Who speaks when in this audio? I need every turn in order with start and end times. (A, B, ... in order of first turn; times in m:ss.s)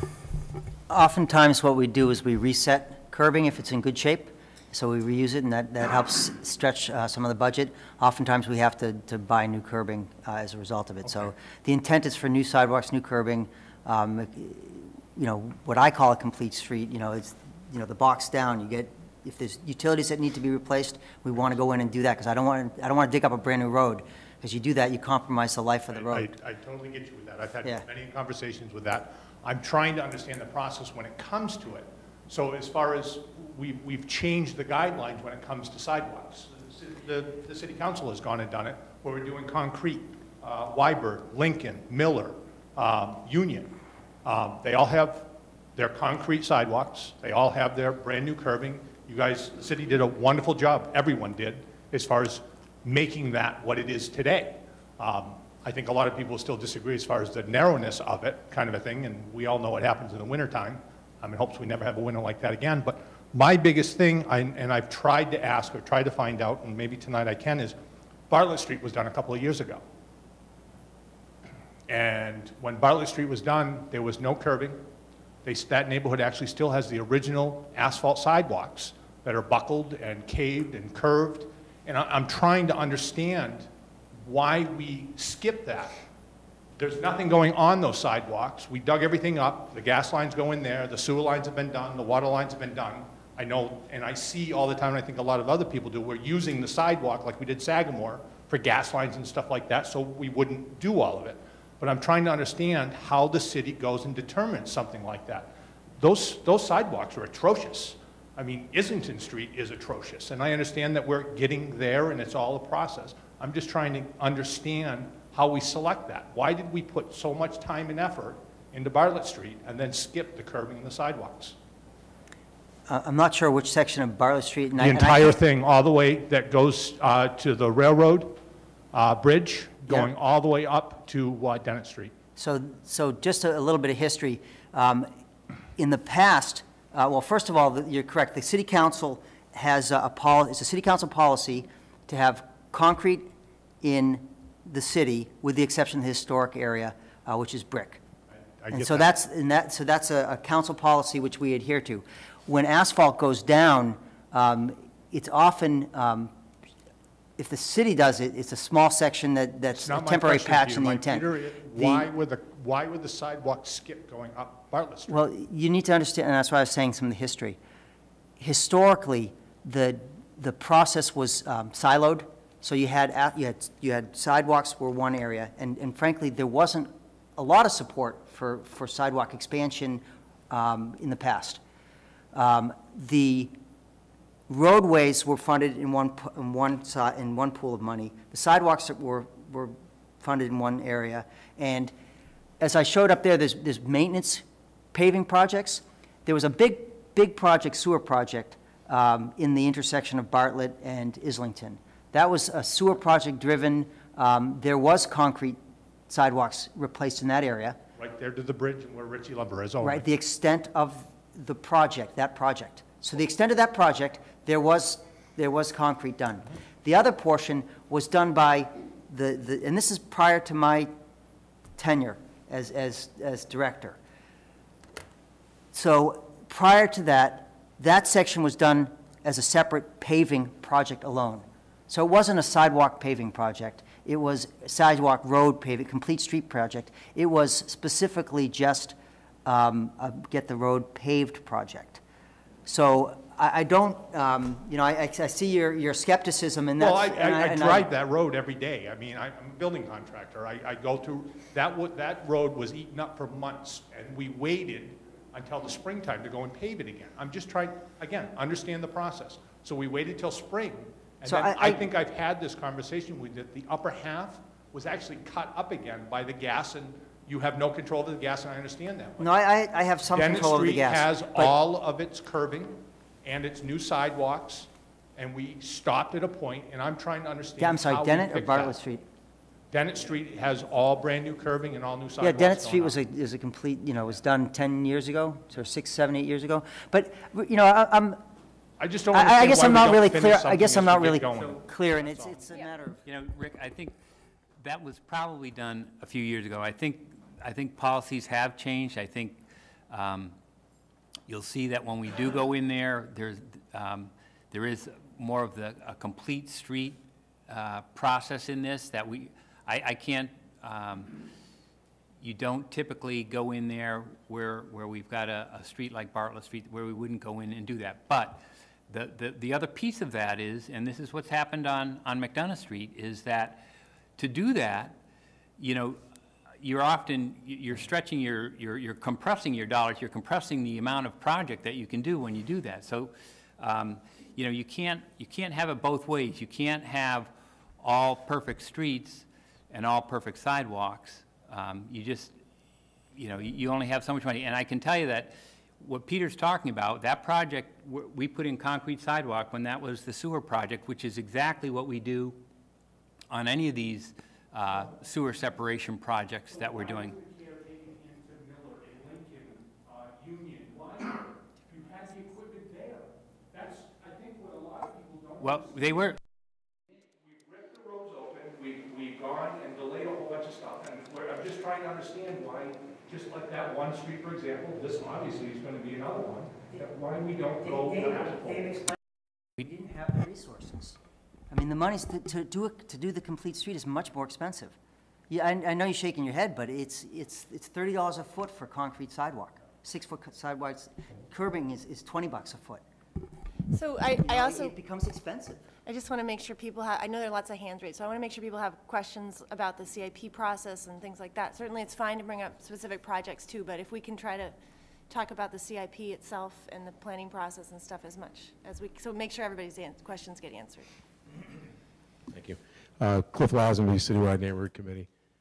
0:00.9-0:26.3 A
0:25.9-0:43.7 B
0:44.2-1:07.8 B
1:08.3-1:09.8 B
1:11.9-1:14.8 B
1:15.4-1:23.7 B
1:24.2-1:26.0 B
1:26.8-2:01.6 B
2:02.9-2:05.4 A
2:04.8-2:08.4 B
2:08.9-2:12.1 B
2:09.9-2:10.1 A
2:12.4-2:15.1 A
2:15.8-2:23.3 A
2:23.8-2:28.0 A
2:28.6-2:29.1 B
2:28.7-2:36.3 A
2:37.4-2:42.1 A
2:39.8-2:45.2 B
2:45.1-2:47.6 A
2:48.4-3:01.6 A
3:02.3-3:03.6 A
3:04.5-3:11.9 A
3:12.6-3:27.8 A
3:28.0-3:30.0 B
3:29.8-3:40.9 A
3:41.8-3:44.0 A
3:45.7-4:02.0 A
4:02.6-4:07.9 A
4:06.8-4:29.3 B
4:21.2-4:21.9 A
4:29.2-4:31.6 A
4:30.1-4:38.8 B
4:37.6-4:39.0 A
4:39.7-4:43.0 B
4:42.2-4:48.2 A
4:48.8-4:52.4 B
4:49.1-4:53.0 A
4:53.0-4:53.9 C
4:54.6-5:00.4 C
5:01.3-5:11.2 C
5:12.2-5:23.6 C
5:24.2-5:25.0 C
5:25.6-5:26.0 C
5:26.6-5:42.4 C
5:43.1-5:52.4 C
5:53.3-5:57.2 C
5:56.5-6:06.2 B
6:05.4-6:06.2 C
6:07.2-6:18.9 B
6:19.6-6:21.0 A
6:21.5-6:24.8 A
6:25.3-6:32.8 A
6:33.7-6:34.7 D
6:34.2-6:35.7 A
6:35.8-6:44.5 D
6:45.1-6:50.9 D
6:52.3-6:55.1 E